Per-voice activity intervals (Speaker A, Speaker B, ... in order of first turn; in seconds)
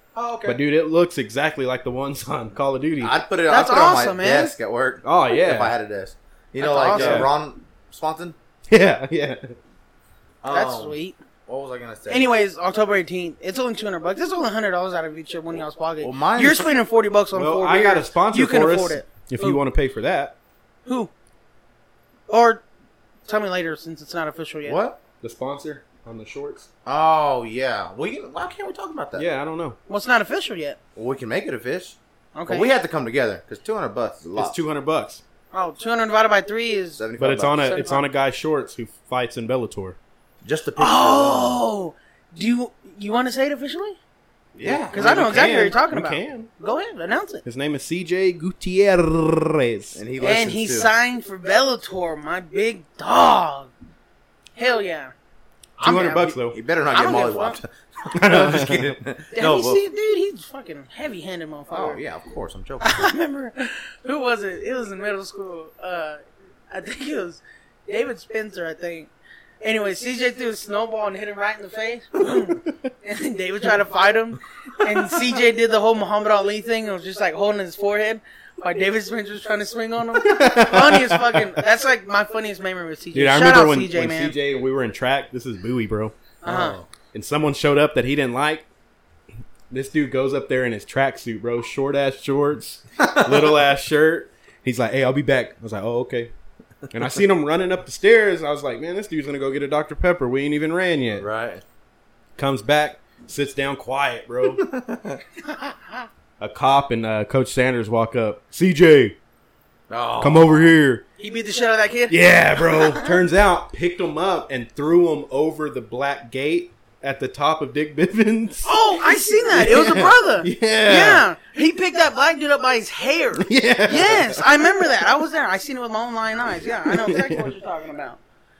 Speaker A: 0.2-0.5, 3.0-8.3, 10.4-12.3, 16.0-16.7, 24.6-25.0, 26.9-29.3, 30.9-34.6, 37.0-37.7, 40.4-41.6, 44.6-45.2, 49.9-50.9, 56.1-59.8, 61.7-63.1, 86.4-86.9, 93.0-93.6, 101.2-101.6, 104.5-105.2, 109.9-110.7
Speaker B: 0.5-3.2, 5.0-5.7, 6.9-7.3, 8.7-9.5, 17.3-20.3, 25.2-26.7, 29.1-29.8, 34.4-35.2, 37.2-40.0, 44.6-46.5, 47.4-50.0, 55.8-56.6, 58.1-58.9, 80.2-81.6, 83.1-86.1, 87.1-88.7, 89.7-96.3, 96.9-101.2, 102.4-104.6, 106.4-109.1, 110.2-111.0, 112.1-118.7, 119.4-121.2, 123.4-124.4, 126.8-127.5
Speaker C: 3.5-4.5, 6.6-7.3, 10.5-11.2, 12.1-19.6, 20.9-21.1, 22.3-22.6, 23.2-24.8, 29.9-30.8, 32.3-32.7, 35.5-37.0, 37.6-38.0, 40.8-44.0, 44.9-47.4, 50.2-53.7, 54.5-55.1, 55.8-56.3, 56.9-57.6, 59.3-62.0, 62.8-84.3, 86.4-86.8, 111.2-112.2, 112.8-113.0, 118.6-128.2